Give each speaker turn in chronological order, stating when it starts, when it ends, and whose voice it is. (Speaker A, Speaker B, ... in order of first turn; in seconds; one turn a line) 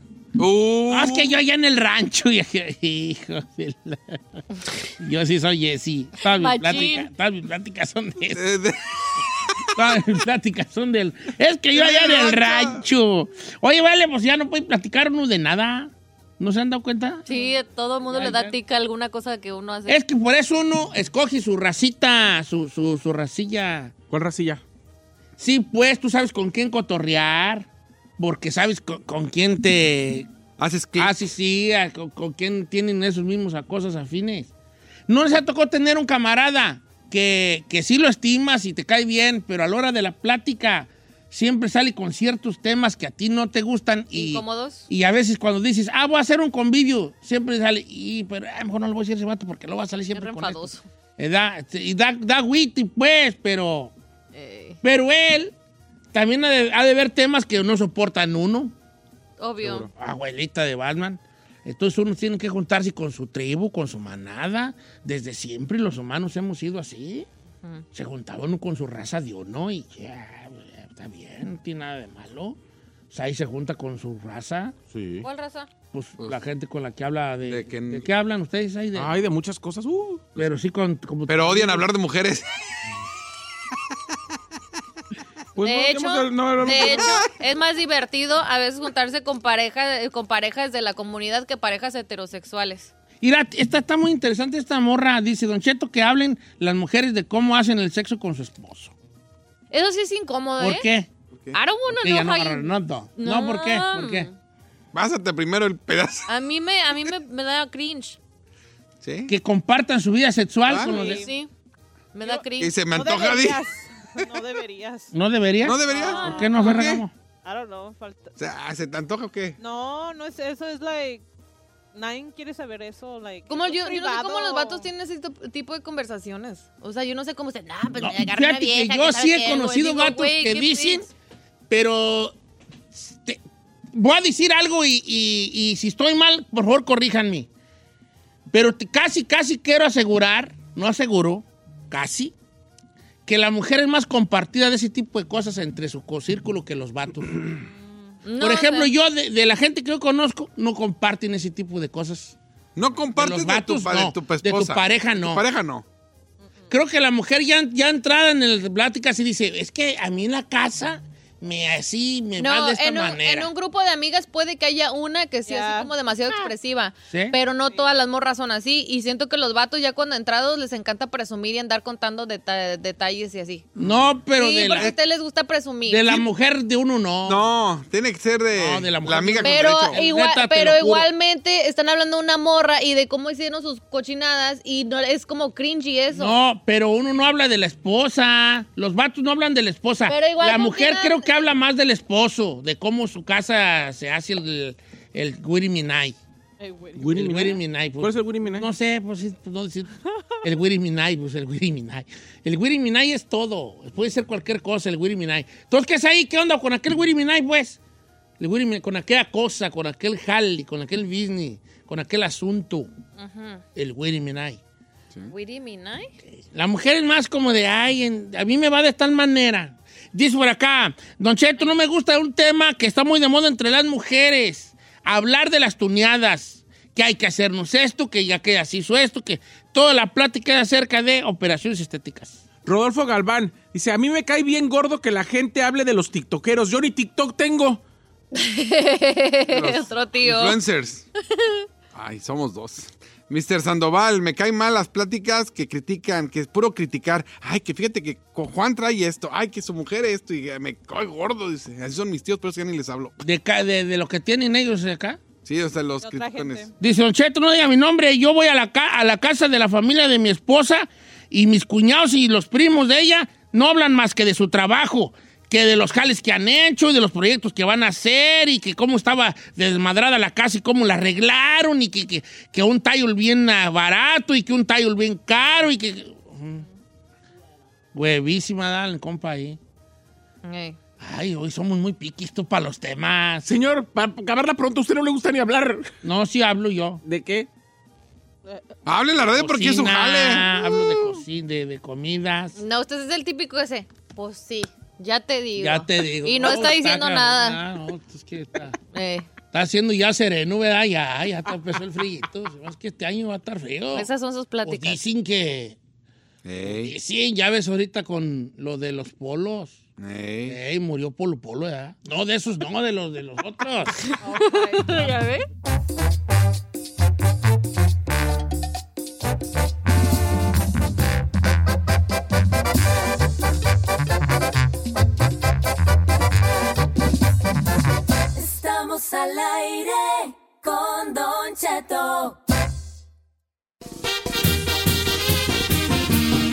Speaker A: 0.4-1.4
Speaker B: 0.9-4.4
Speaker B: 5.0-8.4
Speaker C: 6.3-7.1
Speaker A: 8.3-8.8
Speaker B: 9.7-17.2
Speaker A: 11.7-12.8
Speaker C: 17.3-20.0
Speaker B: 18.1-18.5
Speaker B: 19.9-23.9
Speaker D: 24.1-24.6
Speaker B: 25.4-27.7
Speaker B: 28.2-30.3
Speaker A: 30.6-31.1
Speaker B: 31.0-34.5
Speaker B: 35.1-50.6
Speaker C: 44.1-44.9
Speaker C: 50.1-50.8
Speaker B: 51.2-53.9
Speaker C: 54.3-54.8
Speaker B: 54.8-55.5
Speaker B: 56.1-58.7
Speaker C: 59.4-59.9
Speaker B: 59.9-67.3
Speaker B: 67.9-72.6
Speaker B: 73.1-74.8
Speaker D: 74.9-75.2
Speaker C: 75.2-75.7
Speaker B: 75.9-79.2
Speaker A: 77.5-78.1
Speaker D: 79.0-80.4
Speaker B: 80.4-81.9
Speaker A: 81.3-82.4
Speaker D: 85.6-87.2
Speaker C: 85.6-92.9
Speaker B: 93.2-98.9
Speaker C: 99.7-100.9
Speaker B: 100.6-101.1
Speaker C: 101.5-104.3
Speaker B: 101.9-104.3
Speaker A: 104.9-106.3
Speaker C: 106.3-108.2
Speaker A: 109.0-109.3
Speaker B: 109.3-111.2
Speaker A: 110.7-111.0
Speaker E: 110.8-111.3
Speaker C: 110.9-111.5
Speaker C: 112.1-112.8
Speaker E: 112.2-115.1
Speaker A: 112.6-113.6
Speaker B: 115.1-117.1
Speaker A: 115.6-117.0
Speaker E: 115.9-116.6
Speaker C: 115.9-116.8
Speaker E: 117.4-118.3
Speaker A: 118.4-119.6
Speaker E: 119.6-121.2
Speaker E: 121.9-124.9
Speaker C: 123.5-131.1
Speaker B: 128.0-131.1
Speaker B: 131.7-132.3
Speaker B: 132.9-133.4
Speaker B: 133.9-137.5
Speaker B: 138.5-142.3
Speaker B: 143.2-147.6
Speaker E: 147.6-148.2
Speaker C: 148.2-148.9
Speaker B: 148.4-152.4
Speaker A: 152.8-155.8
Speaker B: 153.1-155.4
Speaker B: 156.7-163.5
Speaker C: 162.4-173.7
Speaker E: 165.4-165.9
Speaker B: 167.1-167.4
Speaker B: 173.7-174.9
Speaker C: 174.3-176.2
Speaker B: 175.9-177.4
Speaker A: 177.2-180.0
Speaker B: 178.6-181.1
Speaker C: 179.4-186.4
Speaker B: 186.1-196.2
Speaker C: 190.1-191.4
Speaker E: 196.6-197.1
Speaker D: 197.0-198.7
Speaker B: 197.1-207.8
Speaker B: 208.4-212.9
Speaker C: 213.2-213.6
Speaker B: 213.7-214.6
Speaker C: 215.3-216.1
Speaker B: 216.5-232.4
Speaker D: 232.6-237.8
Speaker C: 238.3-240.6
Speaker A: 239.5-241.1
Speaker C: 241.3-241.6
Speaker A: 241.9-253.2
Speaker B: 253.2-255.2
Speaker A: 255.4-256.7
Speaker E: 256.0-256.7
Speaker B: 256.8-276.6
Speaker B: 277.9-279.6
Speaker C: 280.4-280.8
Speaker B: 281.0-283.5
Speaker D: 283.4-285.9
Speaker B: 286.0-287.0
Speaker D: 287.0-287.5
Speaker A: 288.9-290.5
Speaker B: 289.4-292.6
Speaker C: 292.6-297.6
Speaker B: 295.6-298.8
Speaker C: 298.9-299.3
Speaker B: 299.5-304.1
Speaker C: 303.9-305.0
Speaker B: 304.6-305.8
Speaker A: 306.4-306.9
Speaker B: 306.6-309.8
Speaker A: 310.0-310.6
Speaker B: 310.4-314.1
Speaker C: 314.1-315.4
Speaker E: 314.2-315.2
Speaker F: 328.4-332.4